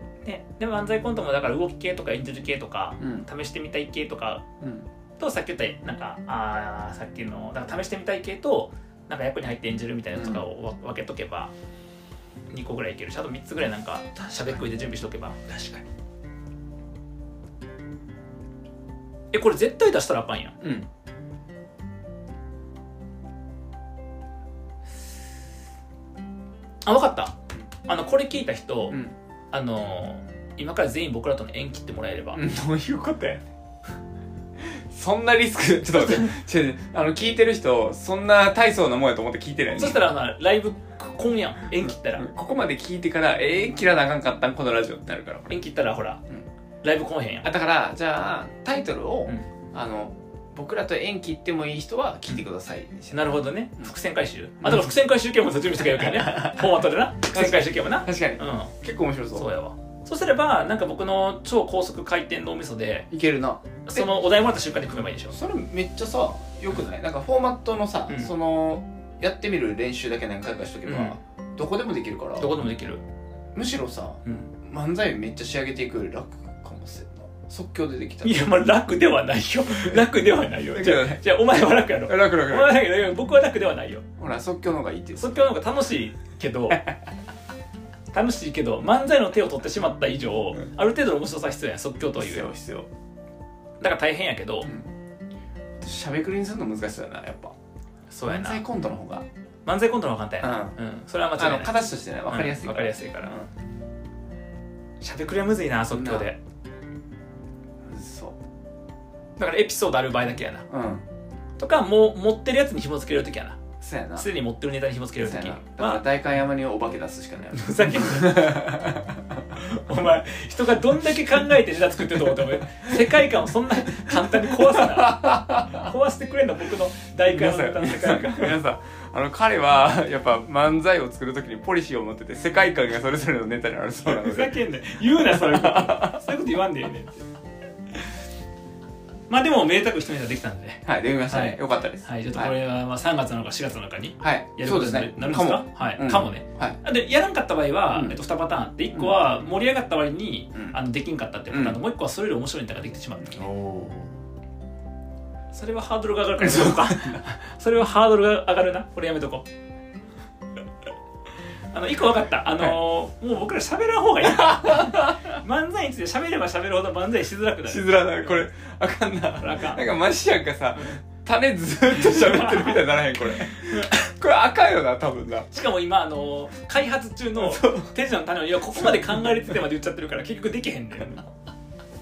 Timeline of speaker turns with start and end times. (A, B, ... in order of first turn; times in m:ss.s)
0:00.2-0:04.5 A
0:03.0-0:03.3 B
0:04.6-0:04.9 B
0:05.2-0:11.5 A
0:10.2-0:10.4 B
0:12.5-0:15.8 A
0:19.3-0:20.6 A
0:20.6-0:20.9 B
0:26.8-0:32.4 A
0:32.3-0:33.5 B
0:34.6-0:40.0 B
0:36.0-0:36.3 A
0:39.8-0:42.3 A
0:41.8-0:45.6 B
0:45.5-0:46.2 A
0:46.8-0:47.5 A
0:47.4-0:53.4 B
0:53.1-0:58.7 A
0:54.6-0:54.9 B
0:55.9-0:56.7 B
0:57.3-0:59.5 B
0:59.3-1:03.1 A
1:03.1-1:04.1 B
1:03.9-1:05.4 A
1:05.3-1:12.5 B
1:10.9-1:11.2 A
1:12.4-1:13.0 A
1:13.5-1:18.5 B
1:18.2-1:24.0 A
1:20.7-1:21.3 B
1:22.1-1:22.8 B
1:24.2-1:25.5 B
1:25.2-1:26.9 A
1:28.1-1:32.5 A
1:32.2-1:32.9 B
1:33.8-1:34.7 A
1:34.6-1:34.9 B
1:35.8-1:37.6 B
1:38.1-1:38.6 A
1:38.3-1:39.2 B
1:39.7-1:41.7 A
1:40.4-1:40.8 B
1:41.4-1:43.5 B
1:42.3-1:43.3 A
1:45.0-1:46.4 A
1:45.9-1:46.3 B
1:47.8-1:48.4 B
1:49.4-1:50.7 A
1:50.7-1:51.1 B
1:51.6-1:53.6 A
1:53.8-1:54.3 B
1:54.2-1:56.0 A
1:55.2-1:59.5 B
1:57.5-1:58.8 A
1:59.5-2:08.6 A
2:04.1-2:05.9 B
2:07.2-2:16.2 B
2:14.0-2:17.2 A
2:19.3-2:33.4 A
2:20.8-2:22.5 B
2:24.2-2:26.8 B
2:27.9-2:28.2 B
2:31.5-2:31.8 B
2:33.2-2:34.2 B
2:35.5-2:39.5 A
2:36.4-2:37.2 B
2:41.7-2:48.3 A
2:44.3-2:45.2 B
2:47.7-2:55.5 B
2:49.4-2:49.8 A
2:51.9-2:52.8 A
2:53.4-2:53.9 A
2:55.5-3:01.3 A
2:57.4-2:58.0 B
2:58.8-2:59.4 B